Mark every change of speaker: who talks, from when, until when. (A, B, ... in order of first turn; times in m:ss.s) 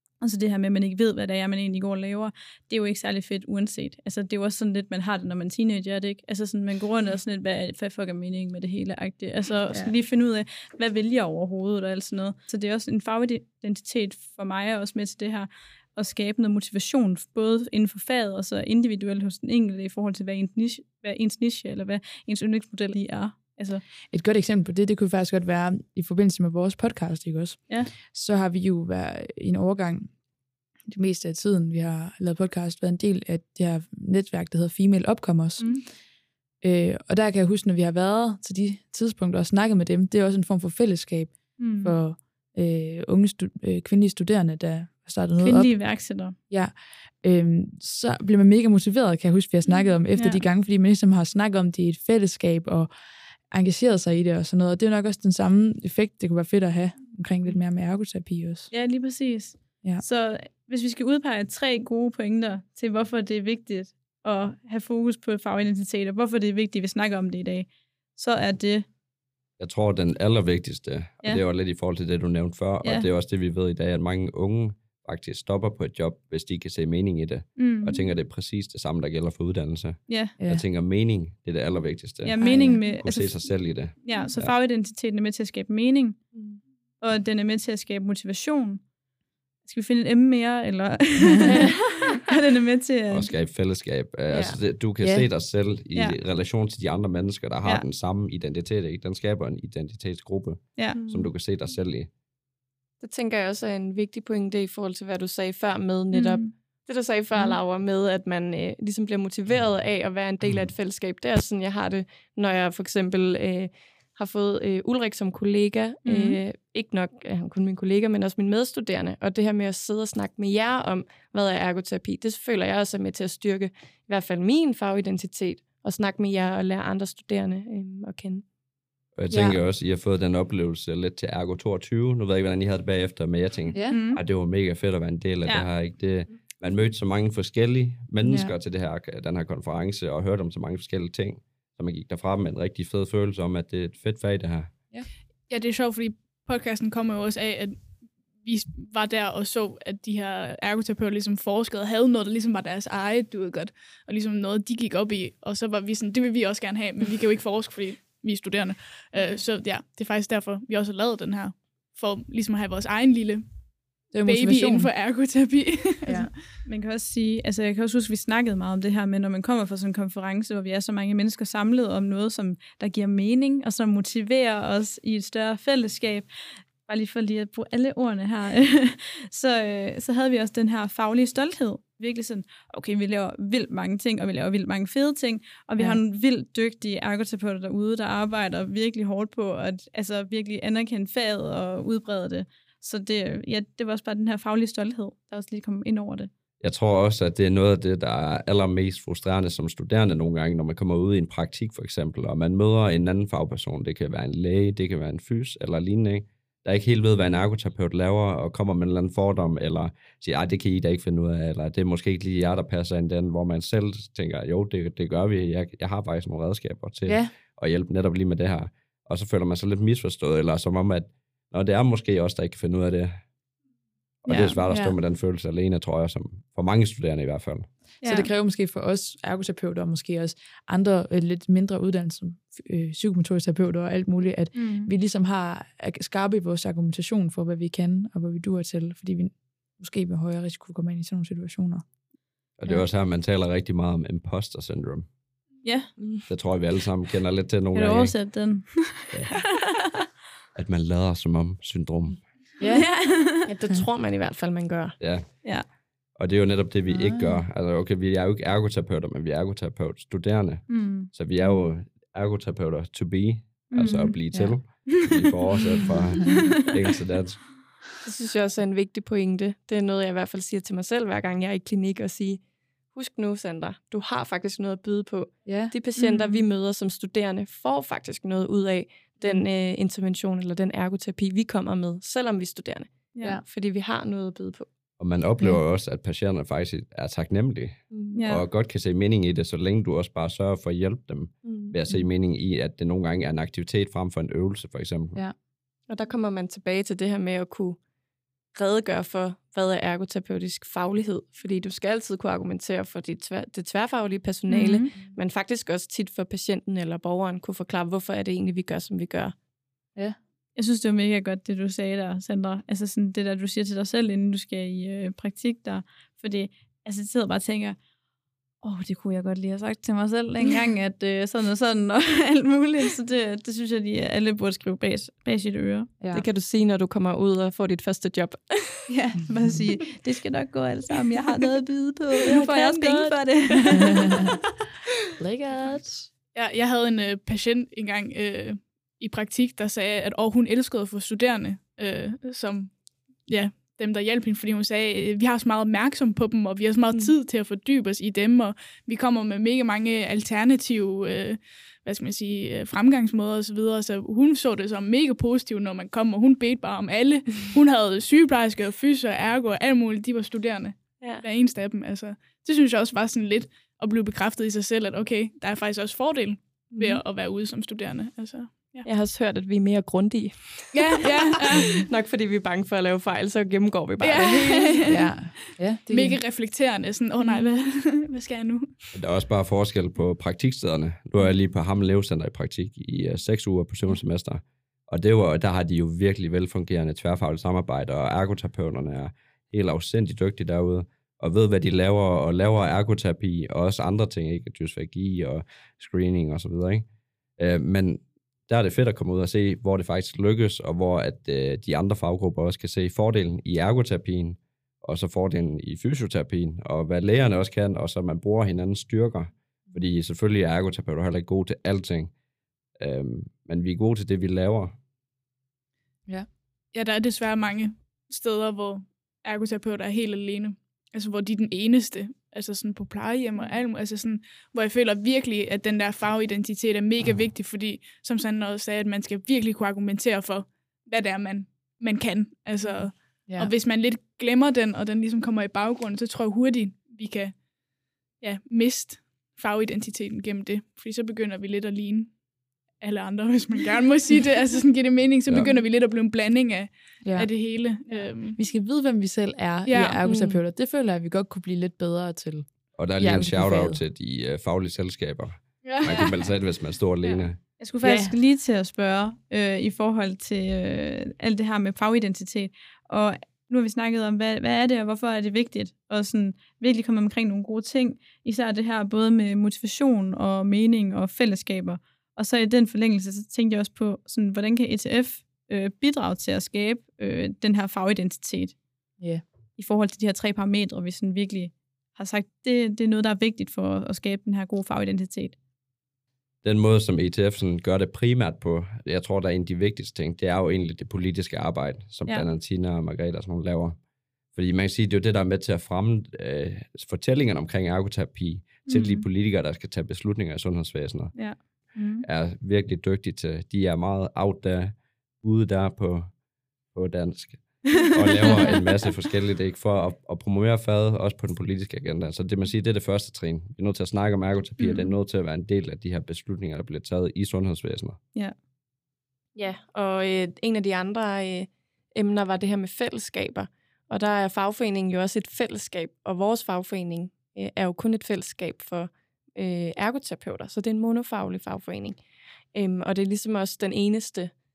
0:00.2-0:23.8 A
0:24.1-0:30.2 B
0:30.9-0:35.9 B
0:35.6-0:35.9 A
0:36.6-0:45.8 B
0:41.6-0:42.0 A
0:45.4-0:46.4 A
0:46.5-0:52.9 B
0:50.1-0:50.4 A
0:53.5-0:58.7 B
0:58.7-1:08.9 A
1:09.6-1:24.5 C
1:12.8-1:13.1 A
1:17.6-1:18.1 A
1:20.1-1:20.3 A
1:20.4-1:20.6 B
1:22.2-1:26.2 A
1:22.4-1:22.8 B
1:26.3-1:26.6 D
1:27.0-1:28.8 A
1:29.6-1:33.3 A
1:31.5-1:32.2 D
1:33.1-1:42.1 C
1:35.0-1:35.3 B
1:40.9-1:41.3 D
1:43.0-2:08.4 D
1:46.1-1:46.5 A
1:56.0-1:56.4 A
2:09.2-2:24.8 C
2:09.3-2:09.6 B
2:13.7-2:14.0 B
2:13.9-2:14.2 A
2:18.2-2:18.5 B
2:25.5-2:46.3 E
2:44.1-2:44.9 B
2:46.0-2:46.3 B
2:46.6-2:56.3 A
2:56.8-3:16.3 A
3:16.6-3:43.2 C
3:37.1-3:37.3 B
3:44.2-3:47.7 C
3:44.3-3:44.6 A
3:44.7-3:45.0 B
3:48.0-3:48.3 A
3:48.0-4:01.8 B
3:54.5-3:54.9 A
4:02.6-4:05.1 C
4:05.6-4:05.9 A
4:06.0-4:06.3 D
4:06.3-4:08.4 C
4:07.7-4:09.3 A
4:09.1-4:09.4 C
4:10.6-4:12.3 C
4:12.6-4:13.0 B
4:12.7-4:13.5 A
4:13.4-4:15.0 D
4:15.0-4:15.6 C
4:16.1-4:27.6 C
4:20.7-4:21.1 A
4:23.7-4:24.8 A
4:28.0-4:44.7 D
4:35.4-4:35.7 B
4:36.0-4:36.4 A
4:43.1-4:43.4 A
4:45.0-4:55.2 C
4:47.9-4:48.2 D
4:48.1-4:48.5 A
4:51.4-4:51.8 D
4:55.9-4:57.8 D
4:58.5-5:09.4 D
5:04.5-5:04.8 A
5:04.5-5:05.2 B
5:10.6-5:17.8 A
5:18.6-5:25.9 A
5:26.0-5:26.2 B
5:26.1-5:28.9 D
5:28.9-5:34.2 A
5:32.2-5:33.8 D
5:35.2-5:36.1 B
5:36.3-6:08.9 E
6:08.8-6:15.0 D
6:10.7-6:11.8 E
6:14.0-6:15.2 E
6:14.9-6:16.2 B
6:15.9-6:18.8 E
6:18.9-6:36.9 C
6:37.4-6:52.1 C
6:52.8-6:54.8 C
6:56.7-7:17.4 E
7:13.3-7:13.5 B
7:18.2-7:28.4 E
7:27.0-7:27.5 B
7:28.3-7:33.8 B
7:29.6-7:30.0 E
7:30.0-7:30.4 D
7:32.8-7:37.4 C
7:35.6-7:36.1 E
7:37.4-7:58.6 A
7:37.8-7:38.2 B
7:59.6-8:05.4 A
8:06.4-8:13.8 C
8:14.3-8:21.4 C
8:18.7-8:19.1 A
8:22.0-8:26.2 C
8:26.7-8:38.0 C
8:34.6-8:34.9 A
8:39.4-8:52.0 D
8:52.5-8:54.3 D